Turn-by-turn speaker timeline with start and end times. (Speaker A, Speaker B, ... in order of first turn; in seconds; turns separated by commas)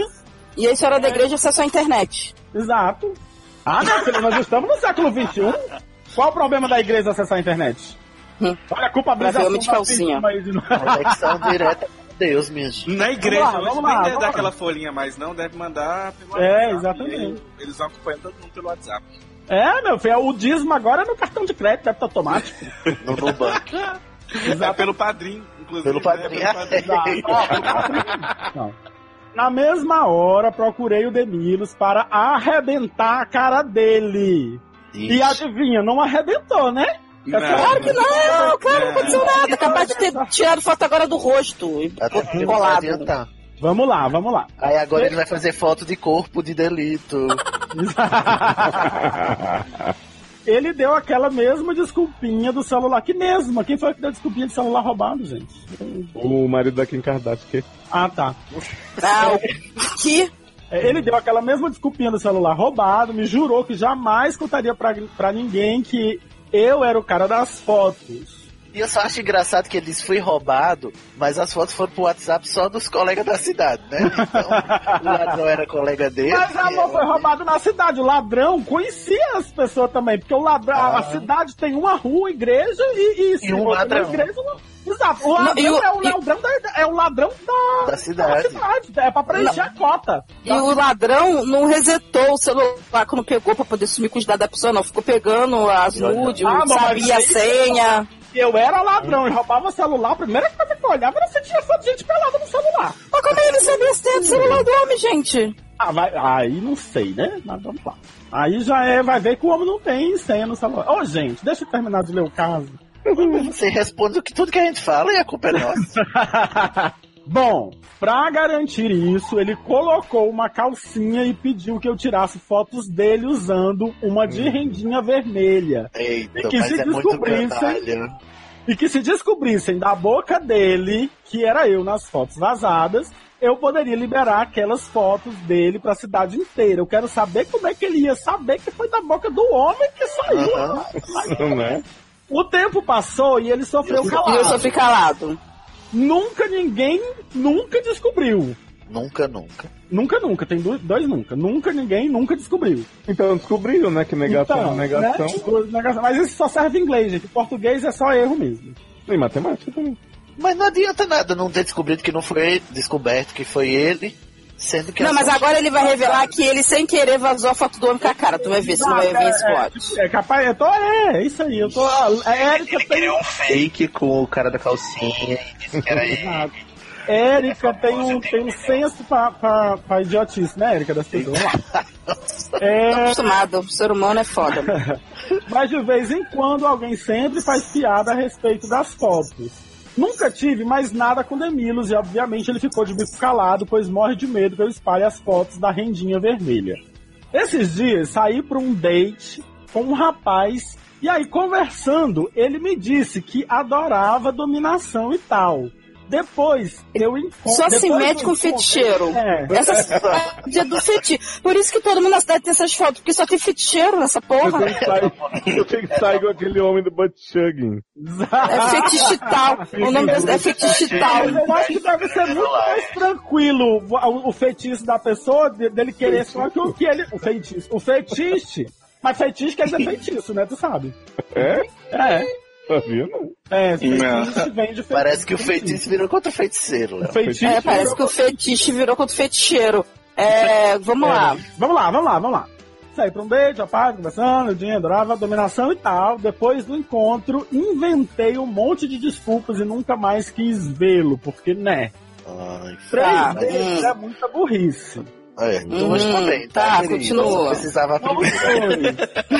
Speaker A: 0.6-2.3, Speaker B: 1.0-1.2, Speaker B: 2.5-5.6, Speaker B: 6.1-8.0, Speaker B: 8.7-11.6, Speaker A: 9.2-10.2, Speaker C: 10.7-12.9, Speaker D: 12.8-19.1, Speaker B: 13.2-14.5, Speaker B: 16.4-17.4, Speaker B: 19.5-22.6, Speaker C: 23.0-23.8, Speaker D: 24.4-27.8, Speaker B: 24.4-24.9, Speaker C: 25.8-27.9, Speaker B: 26.8-28.8, Speaker B: 29.3-40.3, Speaker C: 34.9-35.4, Speaker D: 37.3-38.1, Speaker A: 37.5-43.1, Speaker D: 38.6-39.3, Speaker C: 42.0-43.3, Speaker B: 43.6-45.1, Speaker C: 44.6-47.4, Speaker B: 47.7-49.1, Speaker E: 48.8-49.9, Speaker B: 50.5-56.1, Speaker E: 56.1-57.6, Speaker B: 57.9-58.4, Speaker C: 58.5-59.5, Speaker A: 59.0-60.3, Speaker B: 60.7-68.5, Speaker C: 68.7-77.3, Speaker B: 74.0-75.3, Speaker B: 76.3-90.6, Speaker C: 80.7-81.3, Speaker C: 83.4-84.3, Speaker A: 85.4-86.1, Speaker C: 87.8-88.6, Speaker A: 89.3-89.6, Speaker A: 90.4-98.1, Speaker C: 95.9-96.6, Speaker B: 96.4-103.0, Speaker A: 103.1-105.5, Speaker B: 103.6-104.6, Speaker B: 105.8-112.8, Speaker C: 113.1-116.0, Speaker B: 115.5-127.9, Speaker E: 124.3-124.8, Speaker C: 125.9-128.1, Speaker B: 128.7-144.7, Speaker C: 140.3-140.9, Speaker E: 140.9-141.8, Speaker C: 143.8-144.9, Speaker A: 144.0-145.4, Speaker B: 145.9-148.6, Speaker C: 148.9-149.7, Speaker B: 149.9-152.9, Speaker E: 153.1-155.4, Speaker B: 154.2-158.8, Speaker E: 159.1-160.0, Speaker C: 160.4-166.3, Speaker A: 165.0-169.9, Speaker B: 168.0-173.2, Speaker F: 171.9-176.5, Speaker E: 175.7-176.0, Speaker B: 176.0-176.5, Speaker B: 177.1-181.6, Speaker F: 177.4-178.8, Speaker C: 181.1-182.7, Speaker B: 182.6-183.3, Speaker A: 182.9-184.8, Speaker B: 184.7-196.8, Speaker B: 197.3-209.6, Speaker A: 207.5-214.7, Speaker C: 209.5-210.4, Speaker E: 214.4-217.8, Speaker C: 214.6-215.6, Speaker B: 218.0-230.9, Speaker A: 218.4-221.7, Speaker E: 219.7-220.5, Speaker F: 220.5-223.0, Speaker E: 226.0-226.7, Speaker E: 231.3-231.7, Speaker B: 231.9-232.3, Speaker E: 232.7-233.3, Speaker B: 233.5-235.8, Speaker D: 233.8-234.5, Speaker C: 234.9-237.2, Speaker B: 237.0-238.1, Speaker E: 237.2-237.9, Speaker A: 237.4-241.4, Speaker B: 241.0-251.9, Speaker C: 252.2-253.9, Speaker B: 252.9-255.1, Speaker A: 252.9-253.9, Speaker C: 255.4-258.9, Speaker E: 255.7-256.1, Speaker A: 255.7-257.6, Speaker B: 258.0-259.0